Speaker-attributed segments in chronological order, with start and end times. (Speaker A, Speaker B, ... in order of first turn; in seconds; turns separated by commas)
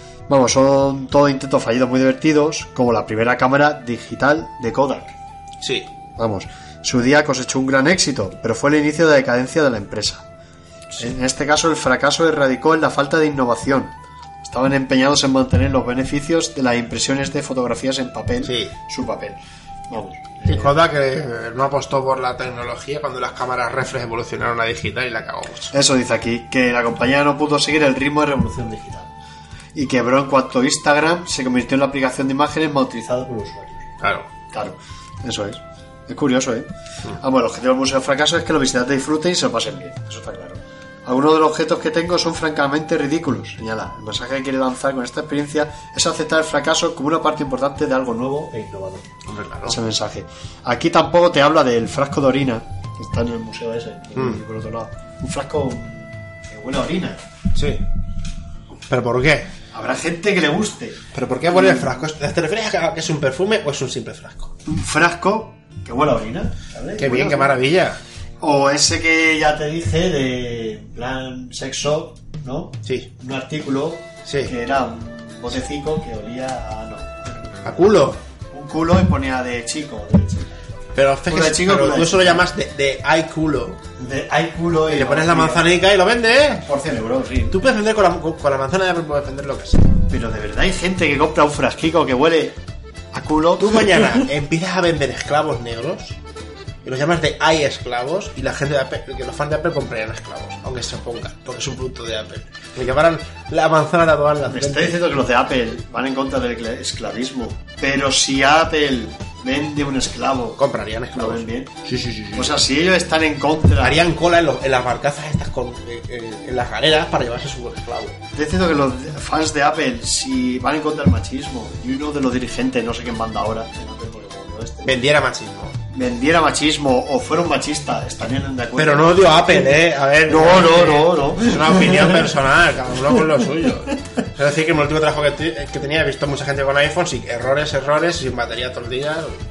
Speaker A: 0.3-5.2, Speaker B: 5.6-5.9, Speaker A: 6.2-10.2, Speaker A: 11.0-19.4, Speaker B: 18.4-18.7, Speaker A: 19.9-20.7, Speaker B: 20.5-25.7, Speaker A: 25.7-29.1, Speaker A: 29.8-33.9, Speaker B: 34.0-34.3, Speaker A: 34.5-49.1, Speaker B: 49.3-49.8, Speaker A: 49.7-57.2, Speaker B: 54.2-54.4, Speaker B: 57.5-57.8, Speaker B: 58.9-59.5, Speaker A: 59.7-62.0, Speaker B: 61.1-64.5, Speaker A: 64.7-67.5, Speaker B: 67.0-68.0, Speaker A: 68.4-77.7, Speaker B: 74.3-74.5, Speaker B: 77.7-78.2, Speaker A: 78.5-80.6, Speaker B: 81.0-83.8, Speaker A: 81.3-82.5, Speaker A: 84.0-85.7, Speaker B: 84.9-86.7, Speaker A: 86.7-87.6, Speaker B: 87.5-89.9, Speaker A: 90.1-92.6, Speaker A: 93.1-94.2, Speaker B: 93.6-96.2, Speaker B: 96.8-105.0, Speaker A: 104.5-110.6, Speaker B: 110.6-112.6, Speaker A: 111.1-111.8, Speaker A: 112.3-114.0, Speaker B: 113.8-118.2, Speaker A: 118.4-125.0, Speaker B: 124.8-125.8, Speaker A: 125.9-129.8, Speaker B: 128.8-139.4, Speaker A: 130.3-132.3, Speaker A: 133.1-133.4